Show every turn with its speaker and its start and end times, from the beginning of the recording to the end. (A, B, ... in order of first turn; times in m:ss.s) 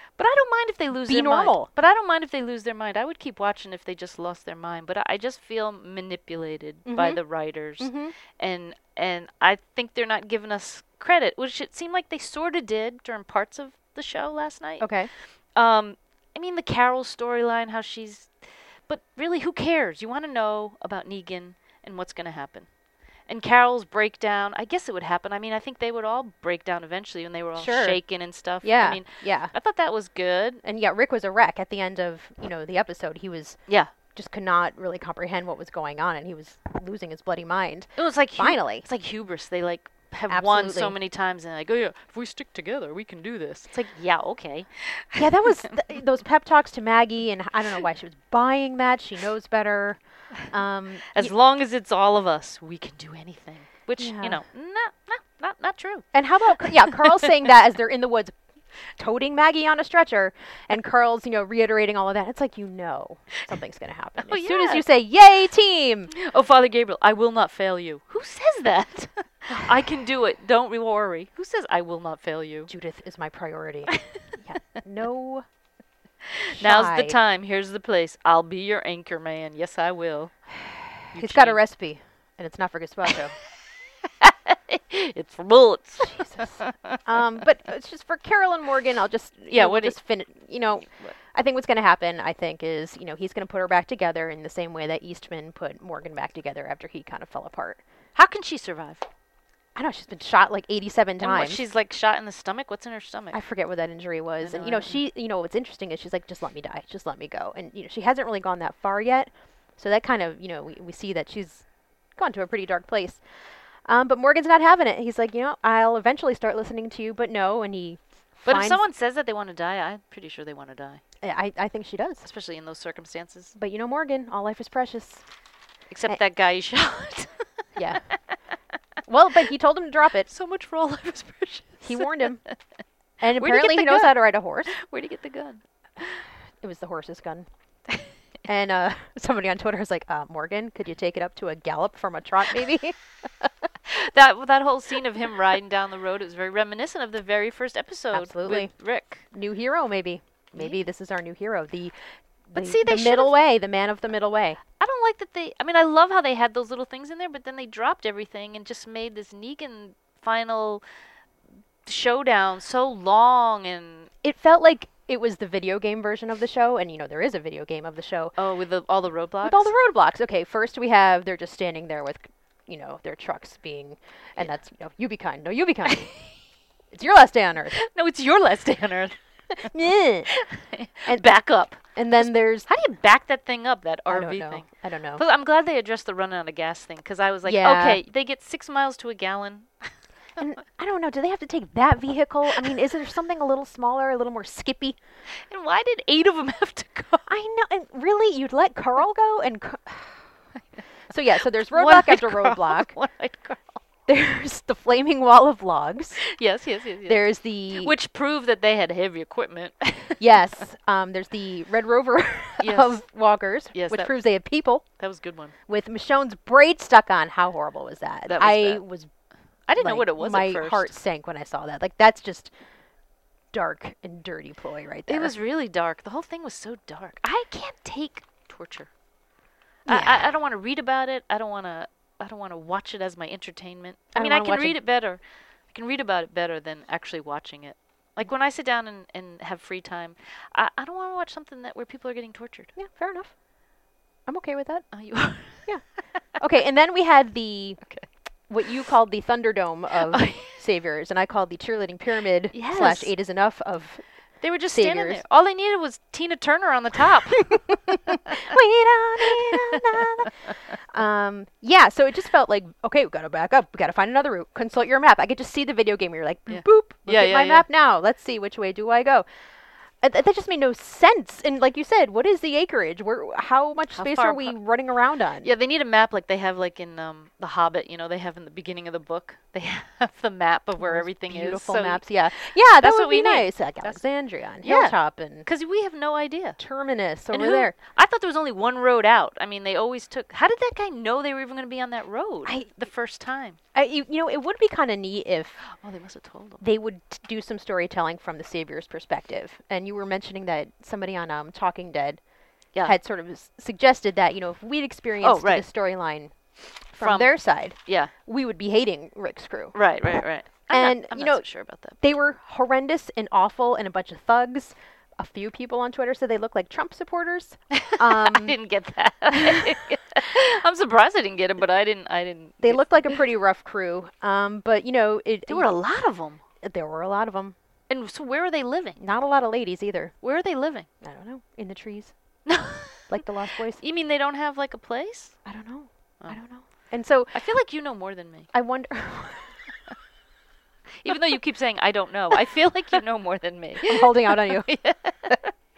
0:00.2-0:14.9 A
0:01.0-0:01.7 B
0:06.8-0:07.2 B
0:07.8-0:08.1 B
0:14.8-0:15.1 B
0:15.5-0:18.3 A
0:18.9-0:22.7 A
0:23.3-0:30.6 A
0:27.6-0:28.0 B
0:28.6-0:29.5 B
0:30.6-0:33.6 B
0:34.1-0:38.8 B
0:38.0-0:45.2 A
0:40.3-0:40.9 B
0:45.1-0:51.3 B
0:51.1-0:56.0 A
0:54.0-0:54.4 B
0:56.1-0:58.4 B
0:56.6-0:57.1 A
0:59.0-1:06.1 B
1:04.2-1:04.8 A
1:06.1-1:12.7 A
1:12.7-1:15.4 B
1:13.9-1:14.2 A
1:16.2-1:20.3 A
1:16.5-1:17.2 B
1:21.1-1:21.6 A
1:21.1-1:23.3 B
1:24.0-1:27.0 A
1:26.0-1:37.8 B
1:29.5-1:30.0 A
1:38.1-1:39.0 A
1:39.7-1:41.6 B
1:41.2-1:43.4 A
1:43.3-1:51.6 B
1:44.4-1:45.0 A
1:52.2-1:53.2 B
1:53.8-1:58.8 B
1:58.4-2:01.0 A
2:01.2-2:02.2 B
2:02.2-2:03.5 A
2:03.5-2:05.2 B
2:05.9-2:07.3 A
2:07.8-2:08.0 B
2:09.0-2:10.3 B
2:10.3-2:12.5 A
2:11.8-2:12.4 B
2:13.2-2:14.7 B
2:13.3-2:14.1 A
2:14.7-2:16.2 A
2:16.6-2:17.5 B
2:18.4-2:23.0 B
2:23.8-2:29.2 A
2:28.1-2:28.7 B
2:29.3-2:31.9 B
2:32.5-2:34.6 B
2:32.5-2:33.3 A
2:34.8-2:40.8 A
2:41.8-2:44.1 A
2:44.2-2:48.3 B
2:48.4-2:49.7 A
2:49.4-2:56.1 B
2:56.9-2:57.8 B
2:57.7-2:59.2 A
2:59.6-3:00.3 B
3:00.3-3:09.9 A
3:01.9-3:02.7 B
3:04.1-3:05.2 B
3:07.4-3:08.0 B
3:10.4-3:15.0 B
3:15.5-3:17.3 A
3:17.3-3:20.2 B
3:21.1-3:22.9 B
3:21.7-3:23.8 A
3:24.1-3:26.2 B
3:26.2-3:30.2 A
3:27.0-3:27.9 B
3:30.2-3:34.8 B
3:32.6-3:33.0 A
3:33.7-3:34.1 A
3:35.0-3:35.5 A
3:35.7-3:39.1 B
3:38.3-3:38.8 A
3:39.7-3:40.9 A
3:39.8-3:42.5 B
3:43.5-3:45.3 B
3:45.1-3:48.9 A
3:49.8-3:55.2 A
3:49.9-3:50.3 B
3:54.1-3:54.8 B
3:55.7-4:02.7 A
4:02.8-4:03.3 B
4:04.3-4:04.9 B
4:04.9-4:05.7 A
4:06.4-4:07.8 B
4:08.5-4:14.0 B
4:10.0-4:10.6 A
4:12.5-4:13.1 A
4:14.4-4:18.5 A
4:14.7-4:15.2 B
4:17.5-4:29.2 B
4:19.2-4:20.8 A
4:26.5-4:27.6 A
4:30.0-4:35.5 B
4:33.9-4:34.5 A
4:35.4-4:44.0 A
4:40.8-4:45.4 B
4:44.6-4:46.6 A
4:46.6-4:47.7 B
4:47.3-4:53.6 A
4:53.7-4:55.6 B
4:55.6-4:56.6 A
4:56.6-5:02.2 B
5:02.8-5:06.3 B
5:05.2-5:05.6 A
5:06.9-5:09.8 B
5:07.0-5:07.3 A
5:07.8-5:08.1 A
5:09.7-5:12.0 A
5:10.7-5:11.4 B
5:12.0-5:18.5 B
5:17.7-5:23.2 A
5:19.3-5:19.8 B
5:22.6-5:25.7 B
5:25.5-5:26.4 A
5:26.6-5:27.6 B
5:27.9-5:29.0 A
5:29.0-5:30.1 B
5:30.2-5:30.9 A
5:31.0-5:32.1 B
5:32.4-5:33.2 A
5:33.1-5:33.8 B
5:33.8-5:35.4 A
5:35.4-5:37.3 B
5:37.3-5:38.5 A
5:38.5-5:39.6 B
5:41.0-5:45.5 A
5:43.8-5:44.7 B